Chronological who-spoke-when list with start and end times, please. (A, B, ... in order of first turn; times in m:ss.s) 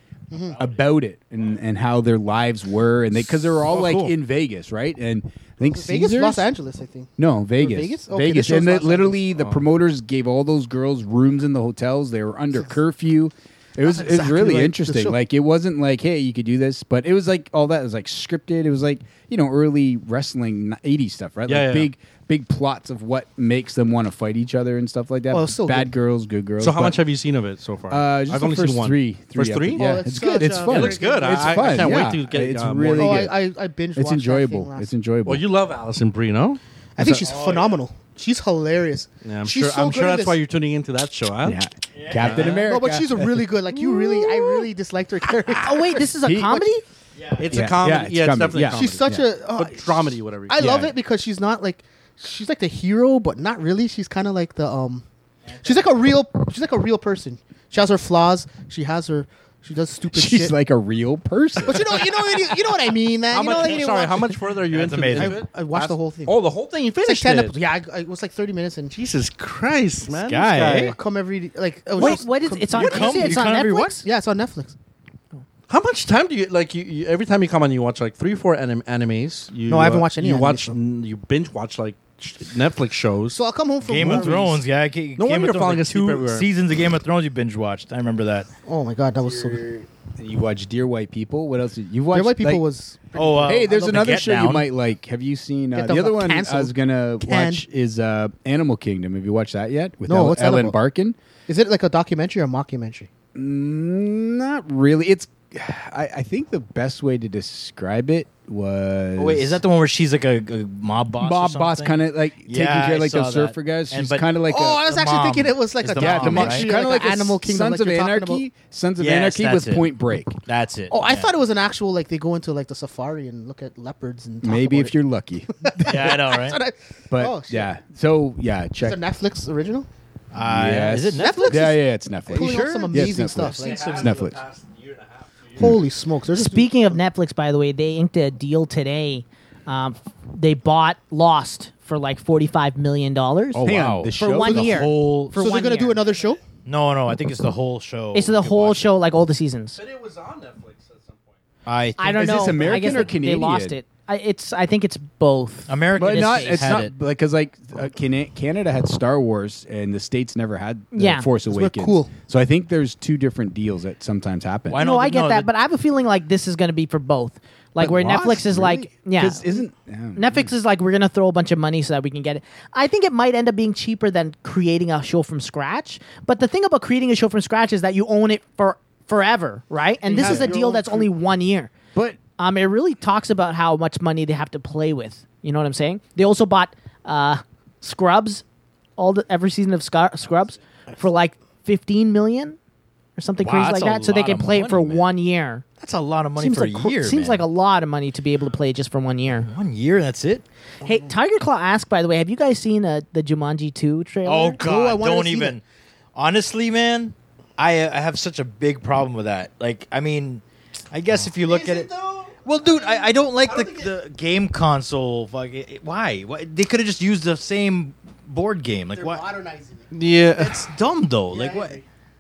0:00.3-0:00.6 A
0:00.6-0:06.5 B
0:03.3-0:04.1 C
0:05.6-0:09.3 A
0:07.2-0:27.0 B
0:13.8-0:15.2 A
0:21.5-0:21.9 C
0:25.3-0:25.9 A
0:26.6-0:29.9 C
0:27.9-0:33.4 B
0:29.7-0:32.2 A
0:30.5-0:33.3 C
0:33.0-0:34.9 A
0:33.9-0:35.5 B
0:35.2-0:37.6 C
0:37.0-0:40.4 A
0:37.2-0:37.8 D
0:39.2-0:41.6 C
0:41.4-0:44.5 B
0:41.9-0:42.7 D
0:42.2-0:42.6 C
0:42.4-0:46.1 A
0:45.6-0:46.8 E
0:46.2-0:46.7 B
0:47.2-0:47.6 D
0:47.4-0:50.7 C
0:47.5-0:49.3 B
0:48.7-0:55.0 A
0:50.6-0:50.9 B
0:55.5-0:56.0 D
0:55.6-1:00.6 A
1:00.1-1:02.4 B
1:01.6-1:04.4 A
1:03.3-1:07.6 C
1:04.7-1:05.4 D
1:05.1-1:06.4 A
1:07.0-1:09.0 A
1:08.9-1:11.0 C
1:10.1-1:11.0 D
1:10.7-1:14.7 A
1:12.0-1:14.0 E
1:12.0-1:13.9 D
1:15.7-1:23.4 C
1:19.7-1:20.8 A
1:23.3-1:24.6 A
1:23.8-1:28.5 D
1:24.0-1:24.4 C
1:25.2-1:26.5 C
1:28.6-1:29.7 A
1:29.2-1:32.6 B
1:32.1-1:34.0 A
1:33.1-1:34.7 D
1:33.4-1:41.2 B
1:35.7-1:37.6 A
1:40.0-1:40.8 A
1:41.5-1:43.1 A
1:43.3-1:49.6 B
1:49.2-1:54.3 D
1:51.2-1:54.8 B
1:54.4-1:58.4 A
1:54.8-1:56.7 D
1:55.9-2:00.4 B
1:59.0-1:59.9 D
2:00.4-2:01.3 D
2:00.9-2:04.9 A
2:04.4-2:05.9 B
2:05.6-2:07.7 A
2:05.8-2:06.6 D
2:07.1-2:09.0 B
2:08.8-2:09.9 A
2:10.3-2:11.8 D
2:10.4-2:14.4 B
2:11.2-2:14.1 A
2:12.3-2:14.1 D
2:13.5-2:15.7 C
2:15.6-2:16.9 A
2:16.3-2:26.0 E
2:23.6-2:24.9 B
2:23.6-2:25.4 D
2:25.3-2:26.4 A
2:26.6-2:28.9 D
2:28.1-2:29.8 E
2:29.7-2:31.4 C
2:31.6-2:32.9 D
2:32.0-2:36.7 E
2:32.1-2:33.8 B
2:35.7-2:36.9 D
2:35.9-2:44.8 B
2:40.9-2:41.3 E
2:41.5-2:42.1 A
2:44.7-2:45.5 D
2:44.7-2:49.6 E
2:47.8-2:50.5 B
2:50.2-3:01.7 E
3:00.0-3:01.1 A
3:00.2-3:00.5 B
3:02.4-3:08.4 E
3:09.0-3:12.6 E
3:13.2-3:15.6 E
3:13.4-3:15.0 D
3:15.8-3:17.4 D
3:16.4-3:19.5 E
3:19.4-3:20.4 D
3:20.8-3:24.6 E
3:24.2-3:25.6 D
3:24.6-3:25.6 A
3:26.1-3:39.2 D
3:31.4-3:33.9 C
3:38.9-3:40.4 A
3:39.9-3:40.6 C
3:40.4-3:41.8 D
3:41.3-3:41.6 A